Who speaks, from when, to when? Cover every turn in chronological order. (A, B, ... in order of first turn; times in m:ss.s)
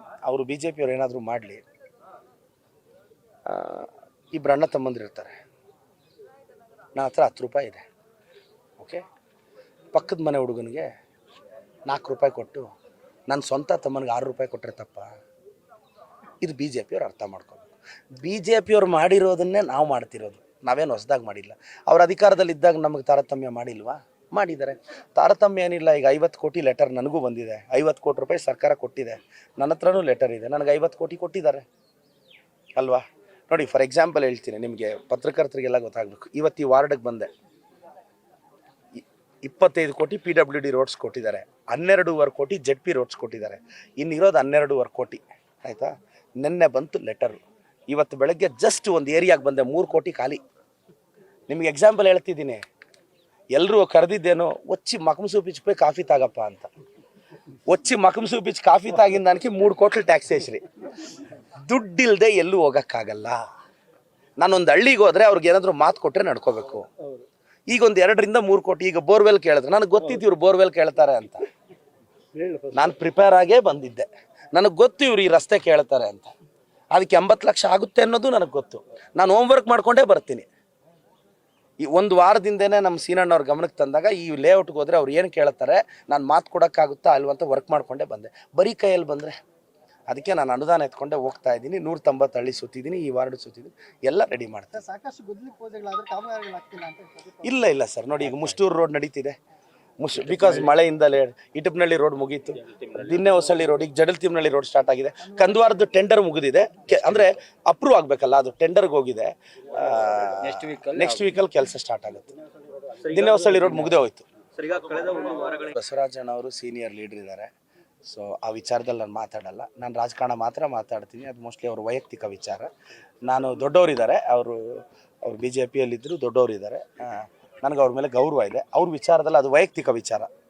0:00.2-0:01.6 A
0:03.5-0:05.3 A
0:06.9-0:07.8 A
0:08.8-0:09.0 A
0:09.9-0:10.9 A
0:11.8-0:12.7 A
0:13.3-0:15.1 A
0:16.4-0:31.6 A
0:32.8-0:37.3 A
0:39.0-0:50.4 A
0:51.5-0:52.6 A
0:53.5-0:56.7 A
0:57.6-1:00.6 A
1:01.4-1:03.4 A
1:04.4-1:06.9 A
1:07.7-1:11.5 A
1:12.4-1:12.8 B
1:12.7-1:16.3 A
1:16.9-1:20.5 A
1:21.8-1:29.3 A
1:30.1-1:34.9 A
1:34.8-1:37.4 C
1:37.4-1:39.4 A
1:40.0-1:52.3 A
1:40.3-1:40.7 B
1:42.8-1:43.3 B
1:50.4-1:51.3 B
1:52.9-1:54.0 B
1:53.0-1:54.2 A
1:54.5-1:55.7 B
1:55.6-1:57.5 A
1:58.0-2:02.7 A
2:03.2-2:10.3 A